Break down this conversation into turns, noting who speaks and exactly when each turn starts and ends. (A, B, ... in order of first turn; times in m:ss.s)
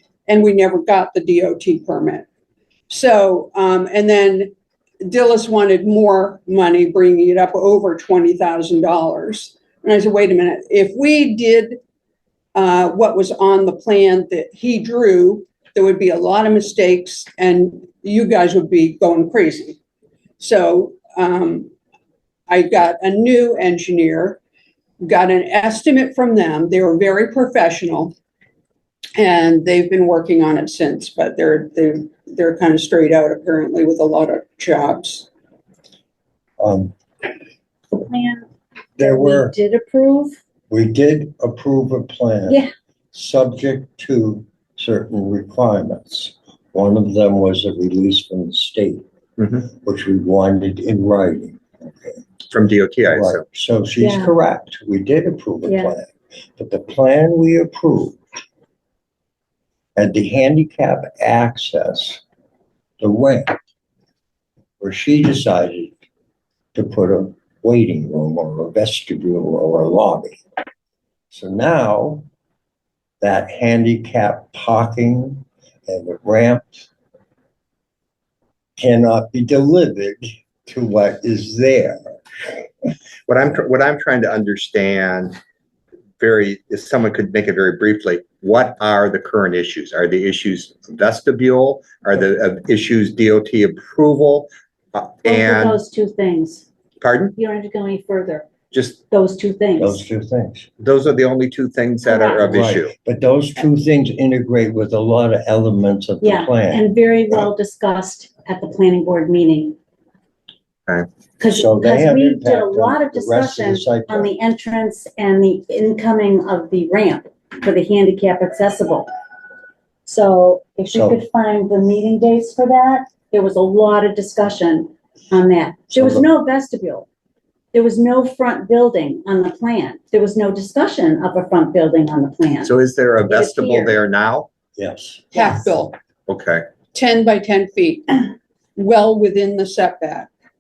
0:00.3-0:02.3 A
0:02.9-0:11.8 A
0:12.5-0:19.8 A
0:20.4-0:21.7 A
0:22.5-0:24.4 A
0:25.0-0:28.1 A
0:29.2-0:35.3 A
0:36.6-0:37.0 B
0:37.9-0:38.5 C
0:39.0-0:39.5 B
0:39.0-0:40.4 C
0:40.7-0:52.2 B
0:52.5-0:53.4 D
0:53.1-0:58.2 B
0:54.0-0:54.3 C
0:55.6-0:56.0 C
1:00.0-1:02.2 B
1:03.0-1:03.6 B
1:04.8-1:06.0 B
1:06.8-1:10.4 B
1:11.3-1:12.2 B
1:13.2-1:16.9 B
1:18.8-1:22.2 B
1:23.3-1:25.4 D
1:26.2-1:35.8 D
1:35.2-1:36.6 C
1:37.0-1:37.4 D
1:37.4-1:40.0 C
1:39.8-1:40.7 B
1:40.8-1:42.9 D
1:42.0-1:42.4 C
1:42.4-1:46.9 B
1:46.2-1:49.8 C
1:51.4-1:59.1 C
1:51.5-1:54.3 B
2:00.1-2:07.1 C
2:00.9-2:01.2 B
2:06.0-2:06.3 B
2:07.7-2:12.7 C
2:12.6-2:14.5 D
2:13.3-2:14.0 C
2:14.8-2:15.4 B
2:15.3-2:16.0 A
2:16.3-2:16.7 D
2:16.9-2:20.3 A